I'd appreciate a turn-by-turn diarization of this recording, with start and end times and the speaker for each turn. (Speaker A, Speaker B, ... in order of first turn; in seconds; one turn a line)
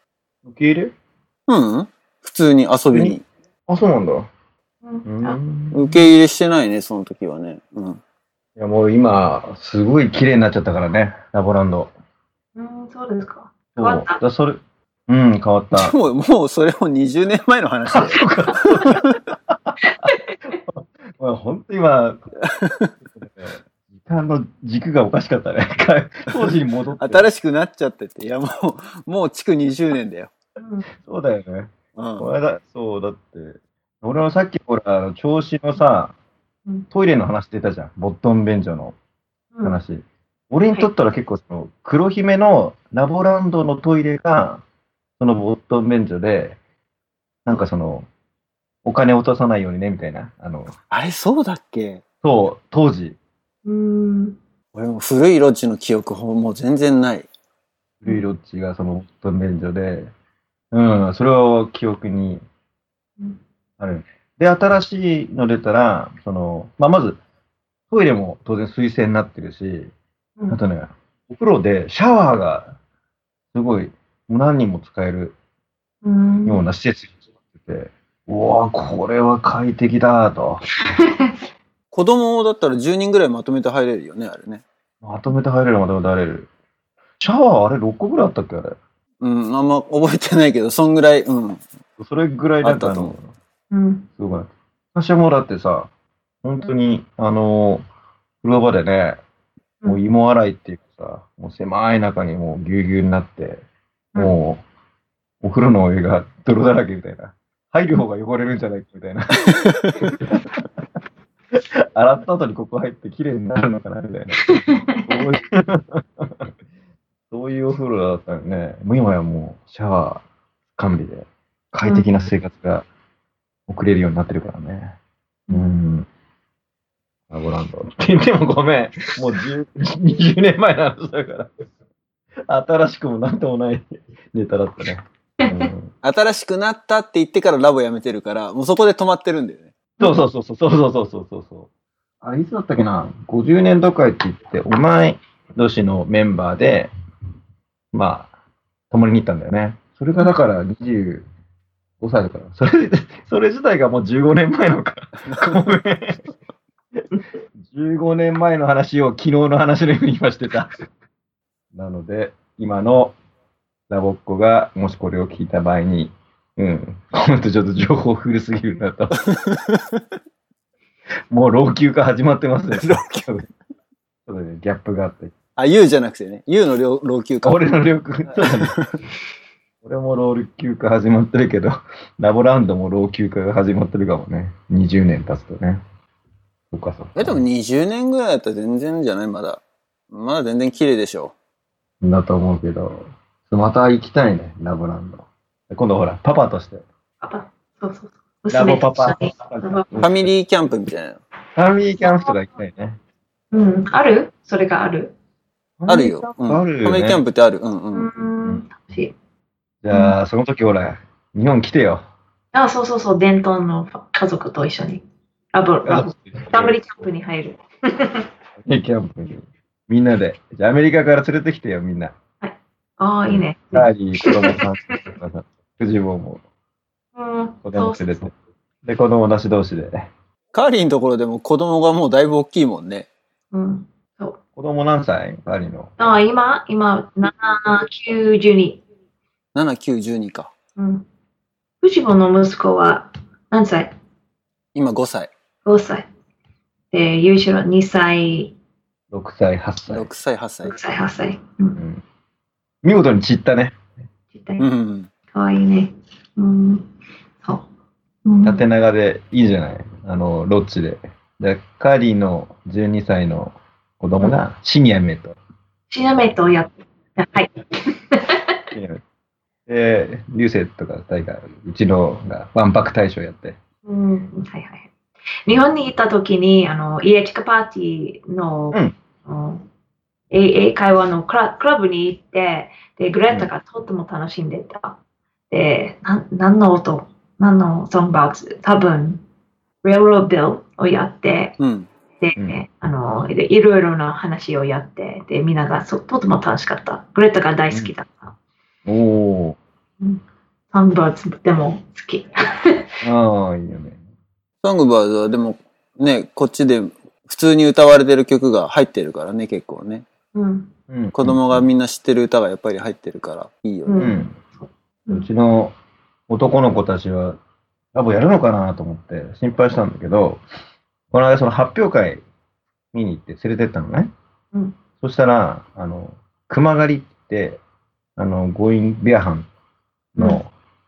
Speaker A: 0.4-0.9
Speaker B: 1.5-3.2
Speaker A: 3.7-4.3
Speaker C: 4.8-5.4
Speaker A: 5.0-6.1
Speaker B: 5.7-8.0
Speaker A: 8.6-11.9
Speaker C: 12.6-14.2
Speaker A: 13.8-15.9
Speaker B: 15.7-19.2
Speaker A: 17.9-20.1
Speaker C: 19.8-20.4
Speaker A: 20.6-22.2
Speaker B: 22.4-22.9
Speaker A: 23.1-27.3
Speaker B: 27.0-30.3
Speaker C: 30.6-30.9
Speaker A: 30.9-36.1
Speaker B: 31.9-32.3
Speaker A: 36.9-39.0
Speaker C: 39.5-39.8
Speaker A: 39.6-44.6
Speaker A: 45.2-46.6
Speaker A: 47.5-48.1
Speaker A: 48.8-50.7
Speaker B: 50.9-52.0
Speaker A: 52.2-53.2
Speaker C: 53.6-54.4
Speaker B: 54.7-57.3
Speaker A: 58.0-60.1
Speaker A: 60.7-62.4
Speaker A: 63.8-67.2
Speaker A: 67.9-69.9
Speaker A: 70.5-72.7
Speaker A: 73.5-75.3
Speaker C: 76.0-76.6
Speaker A: 76.5-80.6
Speaker C: 81.0-81.3
Speaker B: 81.9-84.6
Speaker A: 85.0-86.5
Speaker A: 87.2-88.8
Speaker B: 89.2-91.6
Speaker A: 92.0-93.3
Speaker B: 92.6-93.1
Speaker C: 93.7-94.1
Speaker A: 94.2-95.9
Speaker A: 96.4-97.8
Speaker A: 98.4-99.2
Speaker A: 99.9-103.6
Speaker A: 104.2-104.6
Speaker A: 105.4-110.8
Speaker A: 111.5-116.5
Speaker C: 114.4-115.2
Speaker A: 117.3-120.2
Speaker A: 120.8-122.8
Speaker C: 121.8-122.2
Speaker A: 123.7-125.0
Speaker A: 125.5-126.1
Speaker A: 127.3-131.5
Speaker A: 132.5-135.9
Speaker C: 135.4-135.7
Speaker B: 136.0-139.7
Speaker A: 140.0-141.7
Speaker A: 142.2-146.9
Speaker A: 147.9-148.3
Speaker A: 148.9-151.2
Speaker A: 152.0-156.4
Speaker A: 157.6-160.9
Speaker A: 161.7-163.1
Speaker A: 163.9-169.2
Speaker B: 169.2-170.0
Speaker A: 171.3-173.5
Speaker B: 172.8-173.3
Speaker A: 174.3-175.3
Speaker B: 175.6-177.6
Speaker A: 177.4-178.8
Speaker B: 178.4-178.9
Speaker A: 179.8-185.8
Speaker A: 186.7-187.4
Speaker B: 187.2-191.3
Speaker A: 192.0-196.8
Speaker C: 197.2-199.9
Speaker A: 198.5-200.3
Speaker B: 200.0-201.2
Speaker A: 201.6-203.0
Speaker C: 202.0-202.3
Speaker C: 203.5-205.1
Speaker A: 205.8-207.2
Speaker B: 205.9-208.1
Speaker C: 207.9-209.1
Speaker A: 209.8-212.0
Speaker C: 212.5-218.3
Speaker A: 215.8-216.8
Speaker A: 218.6-222.1
Speaker C: 222.4-225.0
Speaker A: 223.3-226.4
Speaker C: 227.2-228.2
Speaker A: 227.6-228.3
Speaker A: 228.8-230.1
Speaker B: 230.5-233.1
Speaker C: 233.5-234.4
Speaker A: 234.6-235.9
Speaker C: 236.0-238.8
Speaker B: 239.5-240.5
Speaker C: 240.8-241.1
Speaker C: 241.8-243.9
Speaker B: 244.7-245.3
Speaker C: 245.6-246.1
Speaker C: 246.9-248.5
Speaker A: 249.1-250.1
Speaker B: 249.9-250.8
Speaker C: 250.6-251.8
Speaker A: 251.8-252.0
Speaker A: 252.8-253.8
Speaker C: 254.3-254.7
Speaker B: 254.6-255.1
Speaker C: 255.3-256.9
Speaker C: 258.2-258.6
Speaker A: 258.4-265.4
Speaker C: 265.9-268.4
Speaker A: 268.7-269.0
Speaker A: 269.7-273.6
Speaker C: 273.8-274.9
Speaker C: 275.5-279.6
Speaker C: 280.3-285.0
Speaker C: 285.5-289.2
Speaker C: 289.8-291.6
Speaker B: 291.6-291.9
Speaker C: 292.2-298.3
Speaker A: 298.9-299.6
Speaker C: 300.0-302.9
Speaker A: 303.0-304.0
Speaker B: 304.6-310.0
Speaker C: 310.3-310.7
Speaker A: 310.9-311.6
Speaker B: 311.1-314.1
Speaker C: 313.9-315.3
Speaker A: 314.0-314.4
Speaker A: 315.1-315.7
Speaker A: 316.3-317.4
Speaker A: 317.9-320.4
Speaker A: 321.1-322.2
Speaker A: 322.9-324.1
Speaker A: 325.0-327.6
Speaker A: 328.2-329.5
Speaker A: 330.1-330.5